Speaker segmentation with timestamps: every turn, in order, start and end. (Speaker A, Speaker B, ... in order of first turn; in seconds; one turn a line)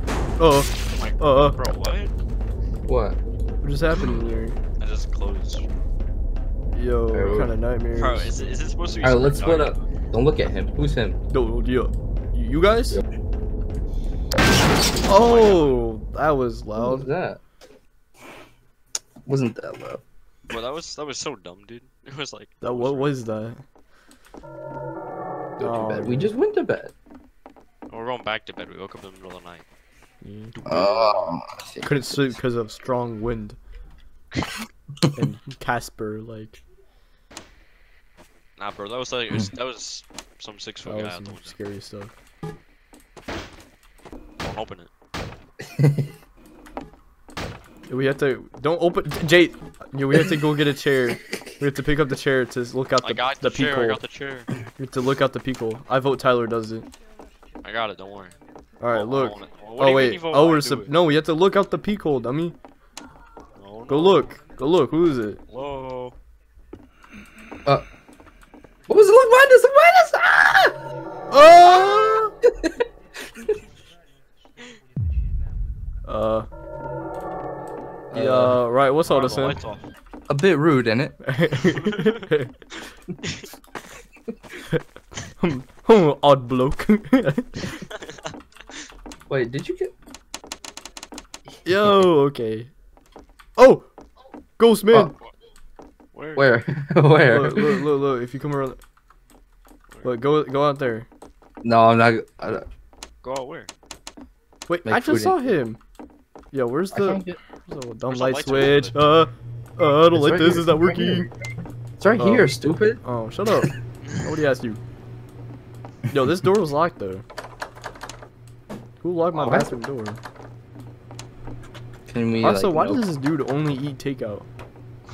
Speaker A: 0.4-1.6
Speaker B: 0.9-2.1
Speaker C: 2.9-3.2
Speaker A: 3.6-4.6
Speaker B: 4.8-5.7
Speaker A: 6.7-8.6
Speaker C: 7.1-7.5
Speaker B: 7.9-9.8
Speaker C: 9.0-11.2
Speaker A: 11.3-13.0
Speaker B: 15.0-15.8
Speaker A: 15.1-17.1
Speaker C: 16.8-17.4
Speaker C: 19.2-20.0
Speaker B: 20.5-23.1
Speaker A: 22.6-23.6
Speaker C: 25.6-26.9
Speaker A: 25.6-26.3
Speaker B: 27.9-29.6
Speaker A: 30.2-30.5
Speaker B: 30.5-31.4
Speaker C: 30.6-32.3
Speaker A: 31.8-33.6
Speaker A: 35.1-36.6
Speaker B: 38.6-41.5
Speaker A: 40.8-42.1
Speaker B: 44.4-44.9
Speaker C: 45.6-46.1
Speaker A: 47.9-54.0
Speaker C: 51.1-51.6
Speaker B: 53.0-54.5
Speaker A: 54.7-56.9
Speaker B: 57.6-58.4
Speaker A: 58.8-62.5
Speaker B: 58.9-60.9
Speaker B: 63.5-64.3
Speaker A: 63.9-65.4
Speaker B: 65.5-66.1
Speaker C: 68.9-70.8
Speaker A: 71.3-72.3
Speaker A: 76.0-76.5
Speaker C: 78.1-78.6
Speaker A: 78.1-79.6
Speaker B: 79.0-79.9
Speaker C: 80.3-81.2
Speaker A: 81.2-82.5
Speaker B: 81.7-82.1
Speaker A: 85.4-87.7
Speaker C: 89.3-89.9
Speaker C: 91.5-92.1
Speaker A: 91.6-92.7
Speaker A: 93.6-93.9
Speaker A: 94.6-95.1
Speaker B: 96.1-96.5
Speaker C: 96.3-97.9
Speaker A: 97.3-98.8
Speaker A: 100.0-101.1
Speaker C: 101.6-102.6
Speaker B: 103.2-103.7
Speaker A: 104.7-105.8
Speaker C: 104.8-105.5
Speaker A: 106.5-111.3
Speaker C: 106.9-107.4
Speaker B: 108.1-108.9
Speaker C: 110.1-111.3
Speaker C: 112.0-113.0
Speaker A: 112.1-114.8
Speaker A: 116.1-117.2
Speaker A: 119.0-120.2
Speaker B: 119.3-119.7
Speaker C: 122.1-123.0
Speaker A: 122.4-124.5